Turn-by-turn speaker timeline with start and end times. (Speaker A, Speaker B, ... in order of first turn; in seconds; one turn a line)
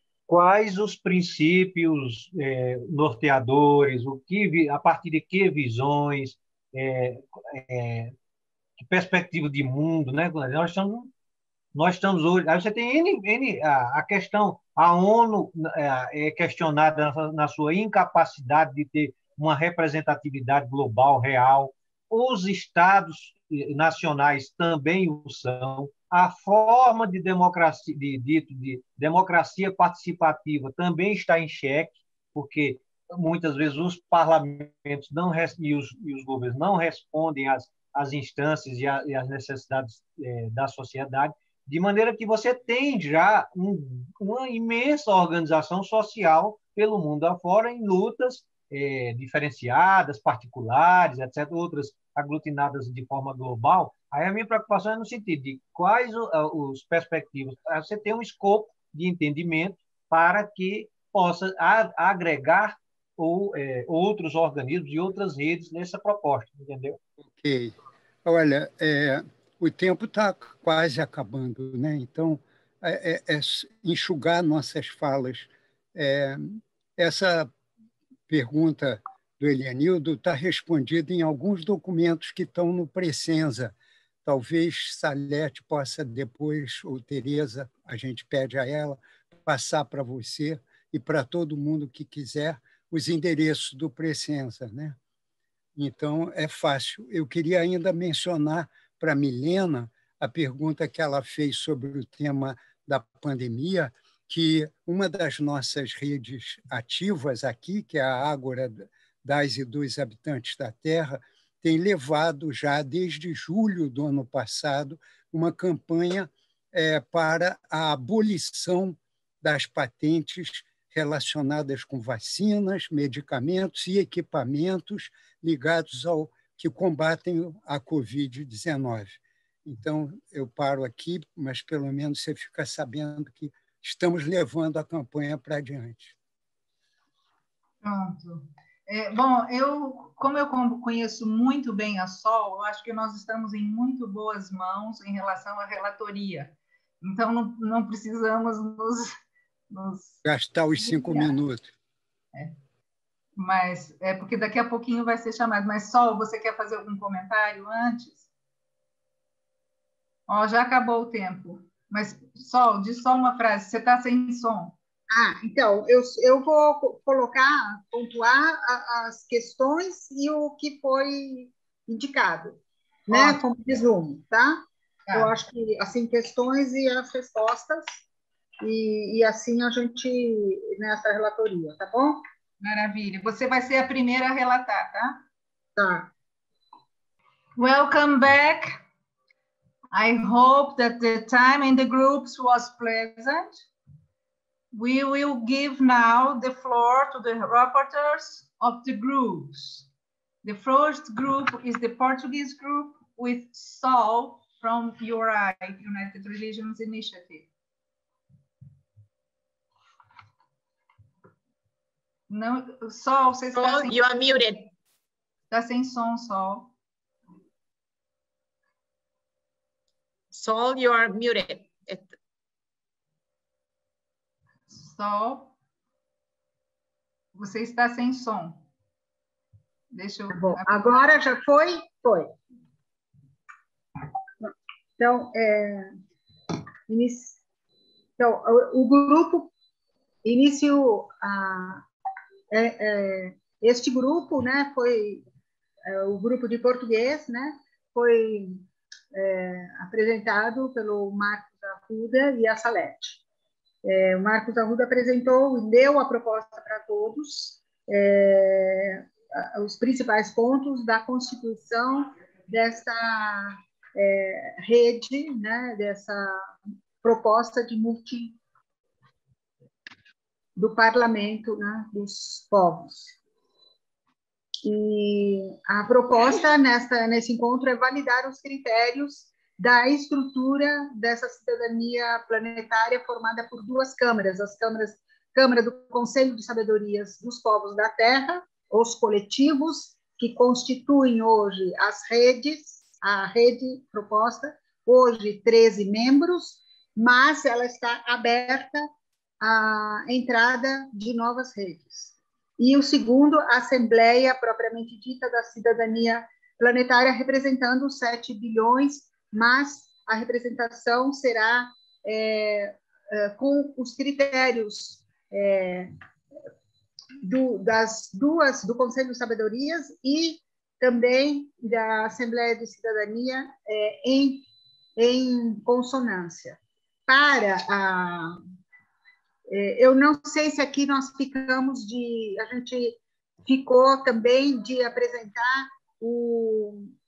Speaker A: 0.3-8.1
Speaker A: 8.8-11.1
Speaker A: 11.7-67.0
Speaker B: 67.2-77.5
Speaker B: 78.3-95.0
Speaker B: 95.8-136.2
Speaker C: 137.8-149.1
Speaker C: 149.7-150.2
Speaker B: 150.2-151.7
Speaker C: 150.8-151.3
Speaker C: 153.4-158.3
Speaker C: 160.3-164.7
Speaker D: 165.1-178.0
Speaker C: 173.1-173.4
Speaker D: 178.6-182.2
Speaker C: 182.6-185.2
Speaker D: 185.8-186.1
Speaker C: 187.6-188.8
Speaker C: 189.9-193.6
Speaker C: 194.7-199.9
Speaker C: 200.4-207.5
Speaker C: 212.3-213.9
Speaker E: 213.5-214.7
Speaker C: 215.5-216.7
Speaker E: 220.3-222.1
Speaker C: 224.7-225.5
Speaker C: 227.3-228.6
Speaker C: 229.9-231.0
Speaker D: 230.3-232.3
Speaker D: 235.0-235.9
Speaker D: 236.9-237.4
Speaker D: 238.2-239.5
Speaker D: 240.2-241.8
Speaker D: 242.5-245.2
Speaker D: 245.9-253.2
Speaker D: 253.8-268.4
Speaker D: 270.6-273.1
Speaker D: 274.6-298.9
Speaker D: 299.4-315.9
Speaker D: 317.2-324.4
Speaker D: 325.0-328.4
Speaker D: 329.5-336.9